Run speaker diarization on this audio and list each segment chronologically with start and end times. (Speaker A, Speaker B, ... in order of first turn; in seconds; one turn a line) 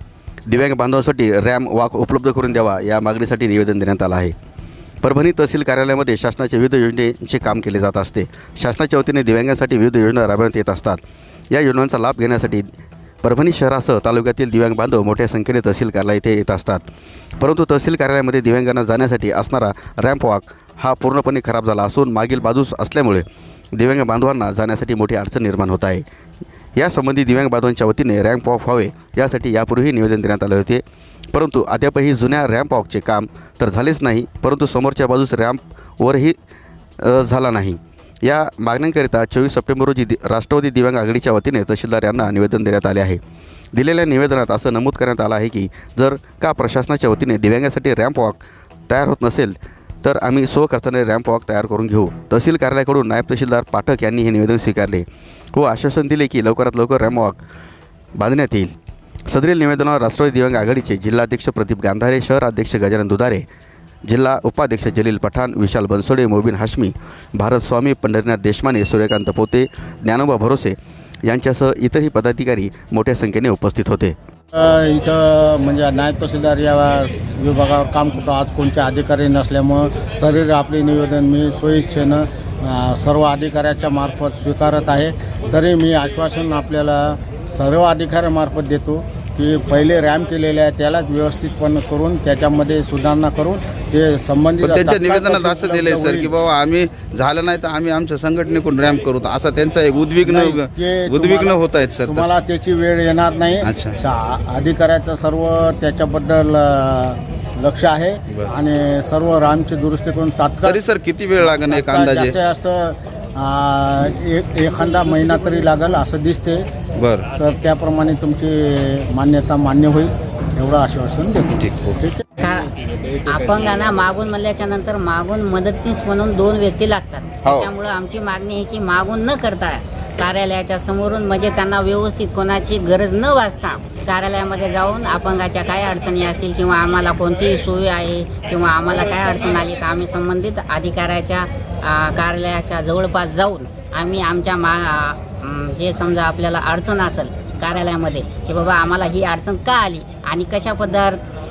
Speaker A: 0.5-4.3
Speaker A: 5.0-11.0
Speaker A: 11.5-12.7
Speaker A: 13.2-16.8
Speaker A: 17.4-26.0
Speaker A: 26.8-36.4
Speaker A: 37.0-43.2
Speaker A: 43.7-57.4
Speaker A: 58.2-58.7
Speaker A: 59.3-63.4
Speaker A: 64.1-74.1
Speaker B: 74.5-96.3
Speaker C: 94.6-102.3
Speaker B: 100.2-110.8
Speaker C: 103.6-104.0
Speaker C: 110.6-112.4
Speaker B: 111.4-116.7
Speaker C: 116.9-117.3
Speaker B: 117.3-122.2
Speaker C: 121.6-121.9
Speaker D: 122.4-151.2